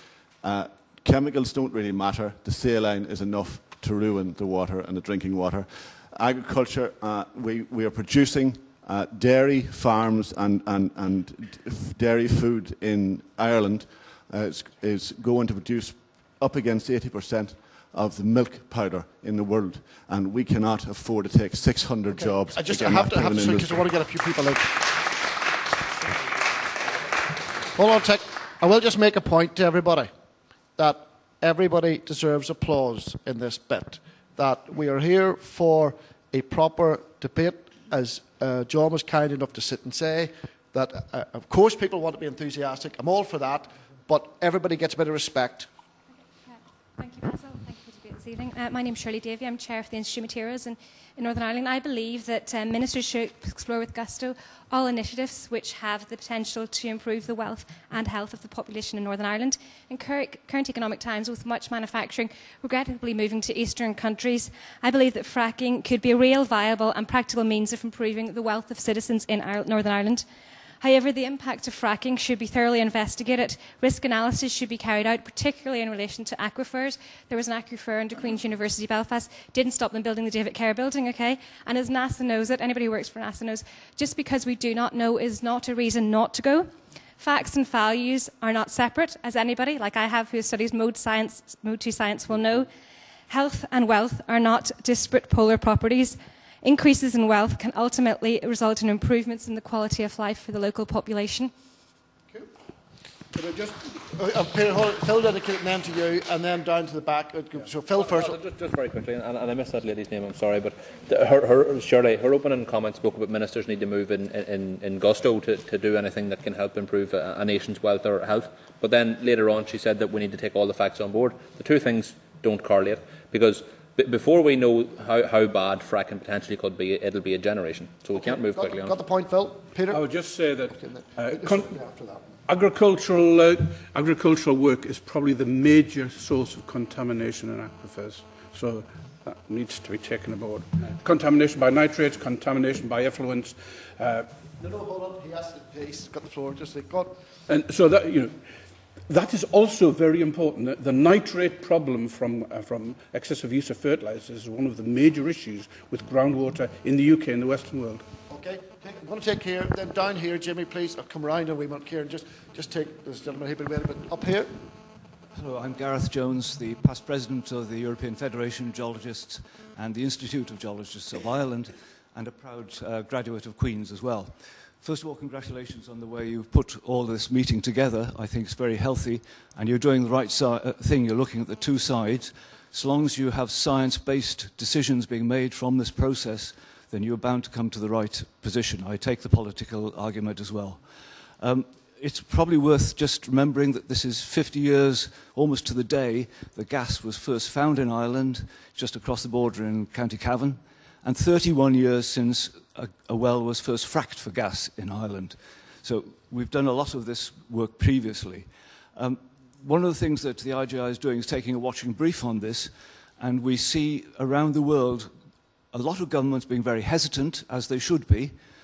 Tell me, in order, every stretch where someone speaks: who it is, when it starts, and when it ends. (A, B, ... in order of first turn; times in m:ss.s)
0:00.4-0:23.8 A
0:22.1-0:24.8 B
0:27.7-0:30.1 B
0:30.8-0:45.7 B
0:46.4-1:10.2 C
1:10.8-1:32.7 C
1:33.3-1:41.5 C
1:43.3-1:48.4 B
1:47.9-2:09.0 D
2:08.1-2:12.4 B
2:09.9-2:11.8 E
2:12.5-2:24.3 E
2:24.6-2:27.2 B
2:27.5-2:28.4 E
2:29.1-2:38.0 E
2:38.3-2:44.5 B
2:45.3-3:35.1 F
3:35.7-3:38.4 F